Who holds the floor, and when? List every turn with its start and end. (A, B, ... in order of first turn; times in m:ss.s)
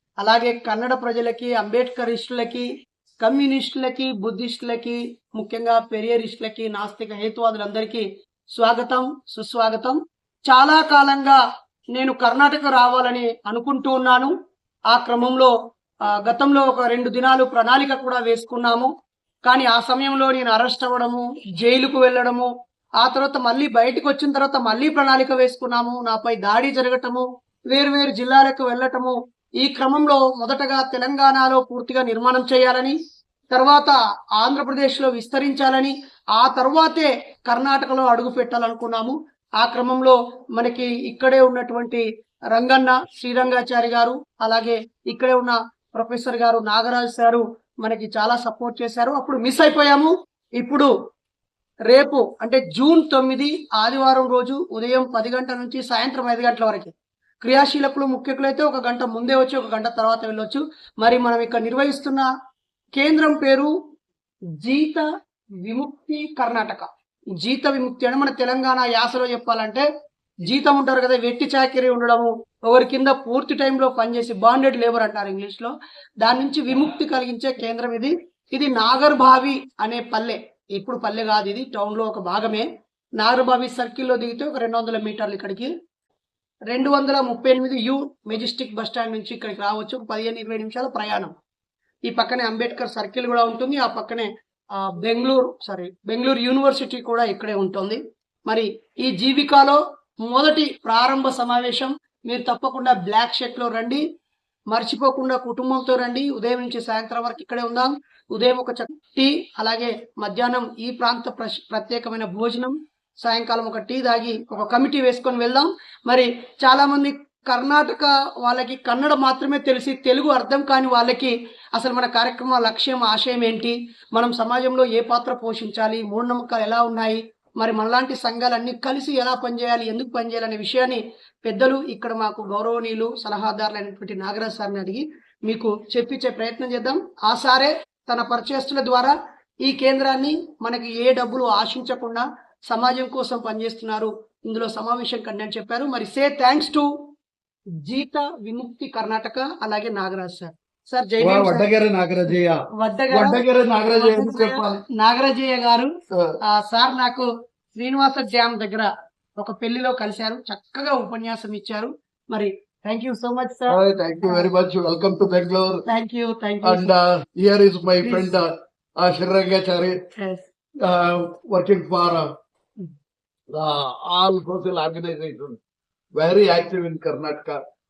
0:00.2-0:02.7 A
0:03.2-0:08.0 A
0:08.6-0:11.4 A
0:11.9-0:14.3 A
0:14.9-0:15.5 A
0:16.2-0:18.9 A
0:19.4-0:22.5 A
0:23.0-0:33.0 A
0:33.5-0:50.9 A
0:51.9-0:56.9 A
0:57.4-1:02.3 A
1:03.0-1:03.7 A
1:04.6-1:05.1 A
1:05.6-1:09.9 A
1:10.4-1:22.7 A
1:23.2-1:25.7 A
1:26.7-1:31.3 A
1:32.1-1:34.3 A
1:34.8-1:44.0 A
1:44.7-2:26.9 A
2:27.8-2:31.7 A
2:31.2-2:32.6 B
2:32.8-2:35.9 A
2:33.1-2:34.8 B
2:36.5-2:44.5 A
2:43.7-2:45.8 B
2:45.9-2:46.9 A
2:46.6-2:48.5 B
2:48.0-2:48.3 A
2:49.0-2:49.9 B
2:50.2-2:50.4 A
2:50.8-2:52.2 B
2:53.5-2:55.6 B
2:56.2-2:57.6 B